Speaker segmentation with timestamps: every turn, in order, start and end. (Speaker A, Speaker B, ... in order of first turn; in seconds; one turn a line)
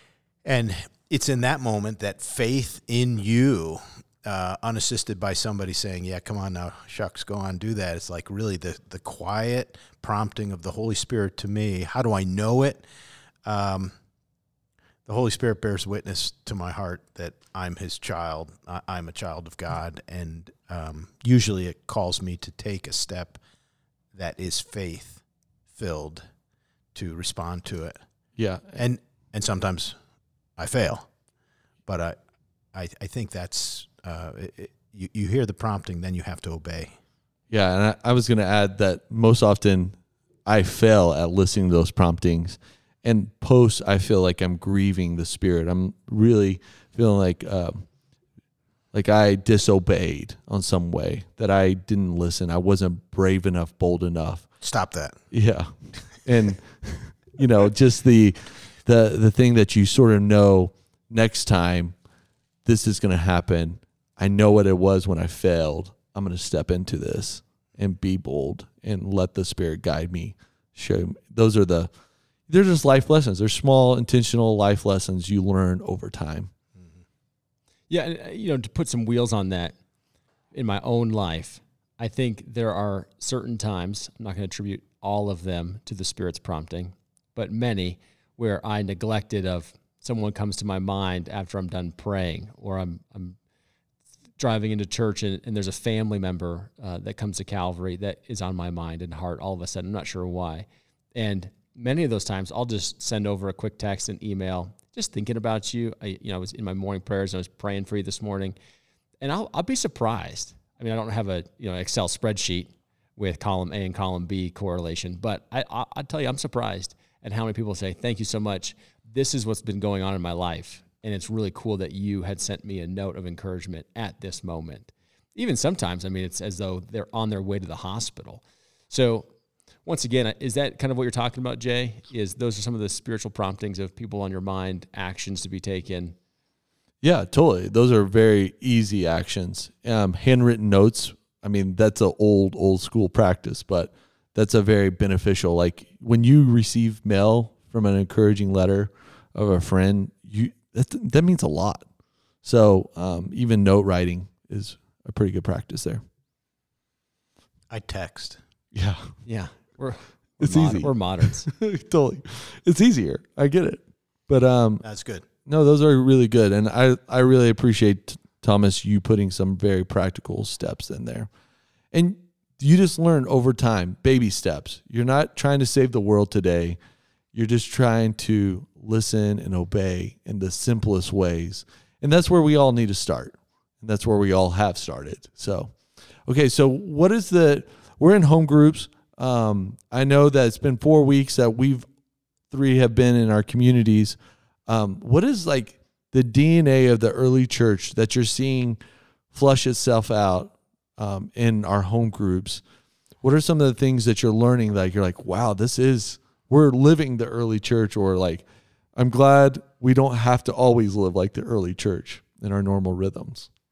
Speaker A: 0.4-12.8
Speaker A: 13.4-13.9
Speaker A: 15.1-23.4
Speaker A: 24.1-25.2
Speaker A: 25.7-26.2
Speaker A: 26.9-28.0
Speaker B: 28.4-28.8
Speaker A: 28.8-29.9
Speaker A: 30.6-31.1
Speaker A: 31.9-32.1
Speaker A: 32.7-37.0
Speaker B: 37.5-47.9
Speaker B: 48.9-54.4
Speaker A: 54.6-55.2
Speaker B: 55.3-61.9
Speaker B: 62.6-71.9
Speaker B: 72.5-76.5
Speaker C: 77.9-79.8
Speaker C: 80.5-93.4
Speaker C: 94.4-108.5
Speaker C: 109.2-129.3
Speaker C: 129.8-136.2
Speaker B: 137.0-151.9
Speaker B: 152.4-156.0
Speaker A: 157.7-158.4
Speaker B: 158.7-159.1
Speaker C: 159.2-161.5
Speaker B: 160.4-164.8
Speaker A: 164.8-165.2
Speaker B: 165.4-171.3
Speaker B: 171.9-176.8
Speaker B: 177.3-185.7
Speaker B: 186.2-191.8
Speaker B: 192.5-198.8
Speaker B: 199.3-202.6
Speaker B: 203.2-208.4
Speaker B: 208.9-213.5